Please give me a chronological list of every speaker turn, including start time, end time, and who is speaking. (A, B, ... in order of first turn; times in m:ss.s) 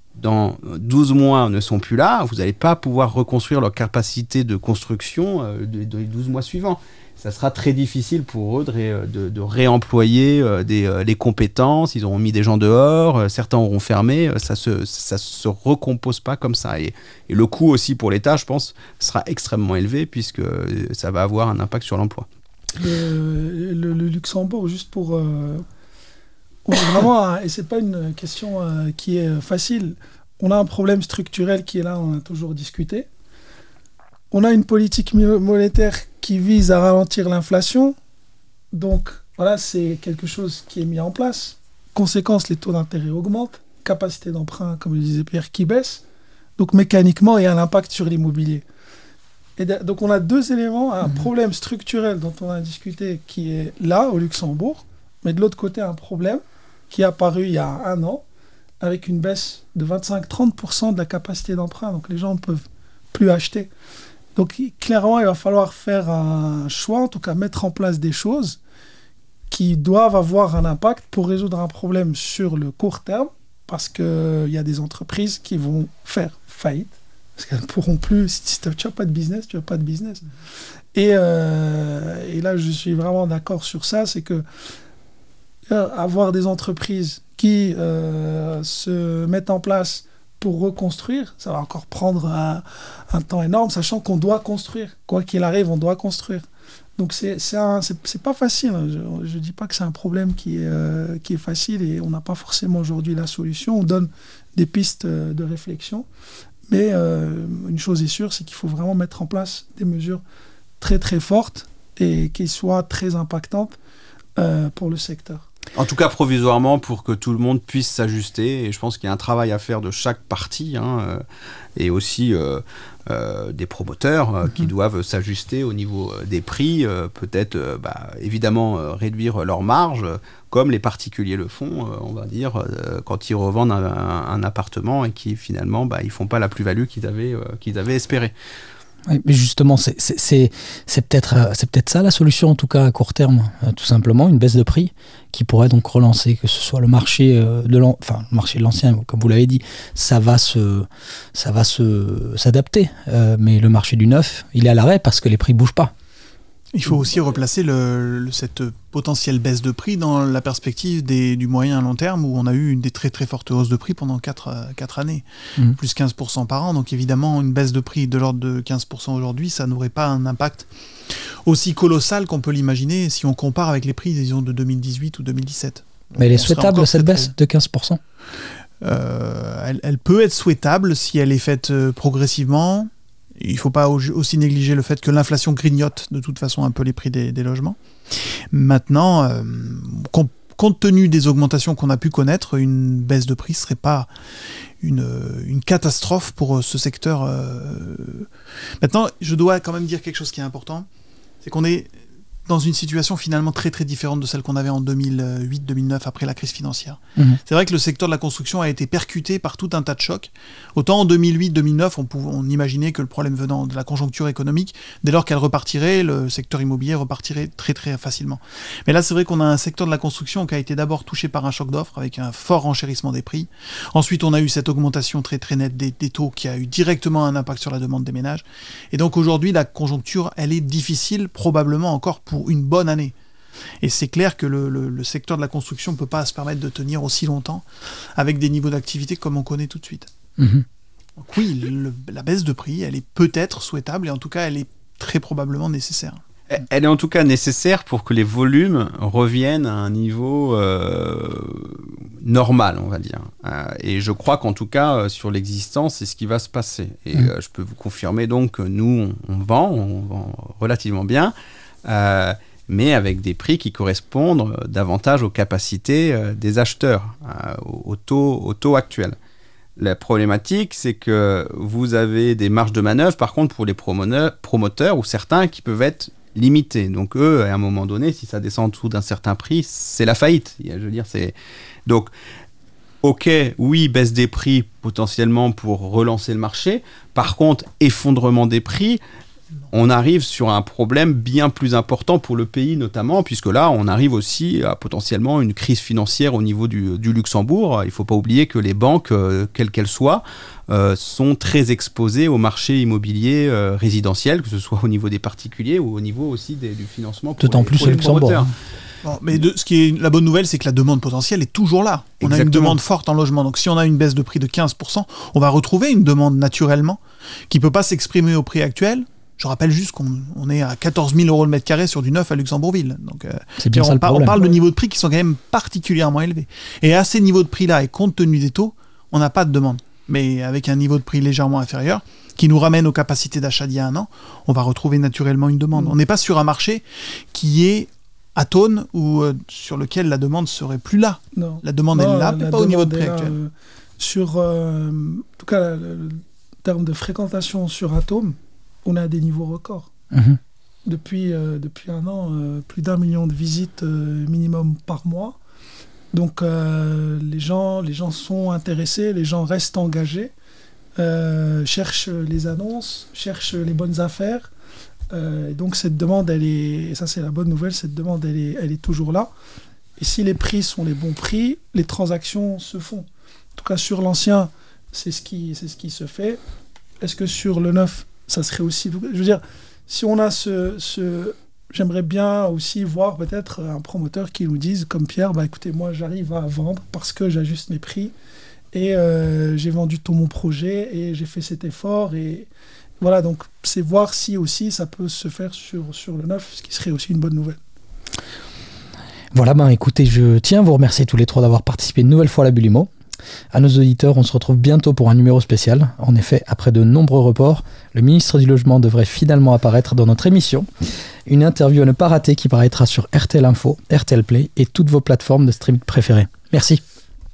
0:00.2-0:22.3 A
0:22.8-0:25.6 B
0:26.7-0:33.1 B
0:34.3-0:38.0 B
0:38.7-0:46.0 B
0:46.6-0:48.6 B
0:49.6-0:58.2 B
0:58.8-1:03.7 B
1:04.4-1:08.6 B
1:09.5-1:20.2 B
1:21.0-1:24.4 B
1:25.7-1:36.5 B
1:37.0-1:46.1 B
1:46.7-1:50.2 B
1:50.8-1:53.8 B
1:54.4-1:55.5 B
1:55.8-2:01.2 A
2:01.8-2:18.3 A
2:19.1-2:35.9 C
2:36.7-2:57.3 D
2:56.2-2:58.0 C
2:58.8-3:14.1 D
3:14.8-3:18.3 D
3:18.8-3:20.9 D
3:21.4-3:21.9 D
3:22.5-3:53.2 D
3:53.8-4:00.1 D
4:00.4-4:00.6 C
4:01.2-4:06.2 D
4:06.5-4:21.3 A
4:21.8-4:29.2 A
4:29.8-4:41.3 A
4:43.0-4:49.0 A
4:49.7-5:08.5 A
5:07.4-5:08.5 C
5:09.0-5:43.4 D
5:12.2-5:12.8 A
5:23.6-5:24.6 C
5:41.4-5:49.9 B
5:50.1-5:50.4 C
5:50.9-5:55.4 B
5:56.1-6:00.3 B
6:01.0-6:04.5 B
6:05.1-6:09.3 B
6:10.0-6:16.4 B
6:17.0-6:28.2 B
6:28.7-6:32.5 B
6:33.0-6:37.6 B
6:39.3-6:42.9 C
6:43.5-6:50.7 C
6:51.3-6:56.8 C